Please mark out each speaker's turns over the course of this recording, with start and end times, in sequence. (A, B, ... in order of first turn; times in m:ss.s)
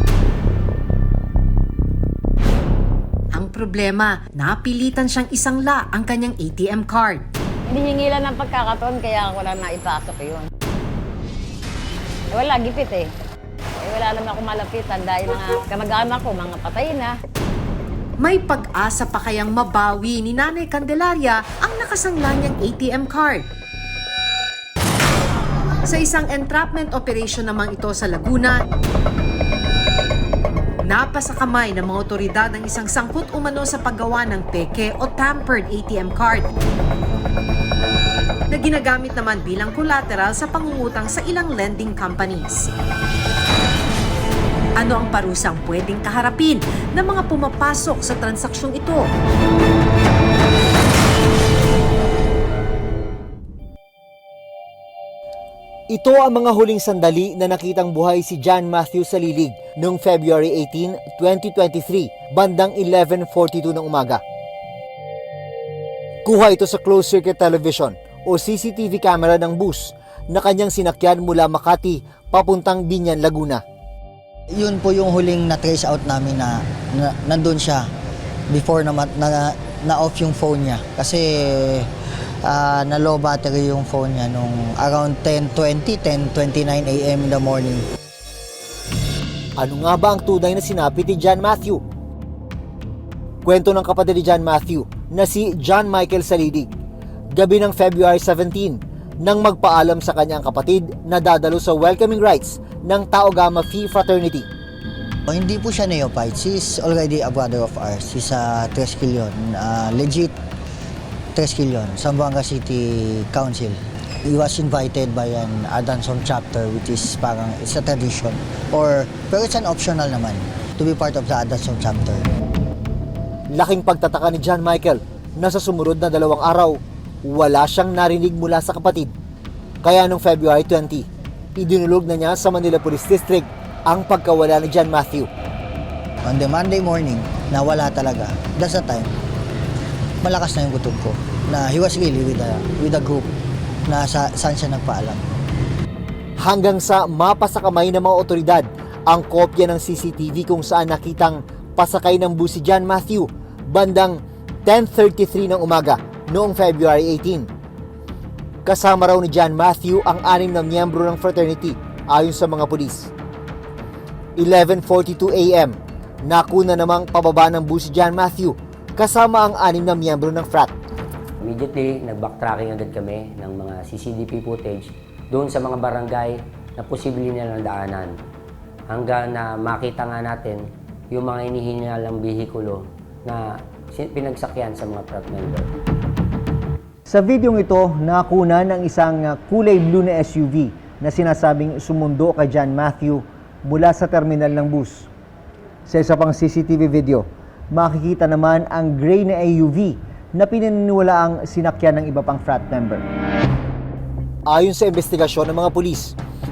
0:03.3-0:07.2 A
0:07.7-0:10.5 B
0:12.3-0:13.1 B
0:13.8-0:17.2 B
0:18.2-0:23.5 A
0:25.9-0:28.6 A
0:30.8-0:36.5 A
0:38.5-0:42.7 A
0:44.8-0:49.1 A
0:55.9-1:04.2 C
1:06.2-1:13.6 C
1:14.5-1:17.9 D
1:18.5-1:27.8 D
1:29.6-1:31.8 C
1:33.4-1:36.7 C
1:37.3-1:44.5 C
1:45.3-1:50.3 D
1:51.3-2:02.3 D
2:03.5-2:09.1 C
2:09.8-2:15.3 C
2:16.2-2:19.1 D
2:20.2-2:23.3 D
2:23.9-2:25.3 D
2:26.4-2:37.5 C
2:38.6-2:43.1 C
2:44.4-2:50.7 C
2:51.4-2:58.1 E
2:58.9-3:05.7 E
3:07.1-3:15.1 C
3:15.9-3:23.0 C
3:24.5-3:26.2 C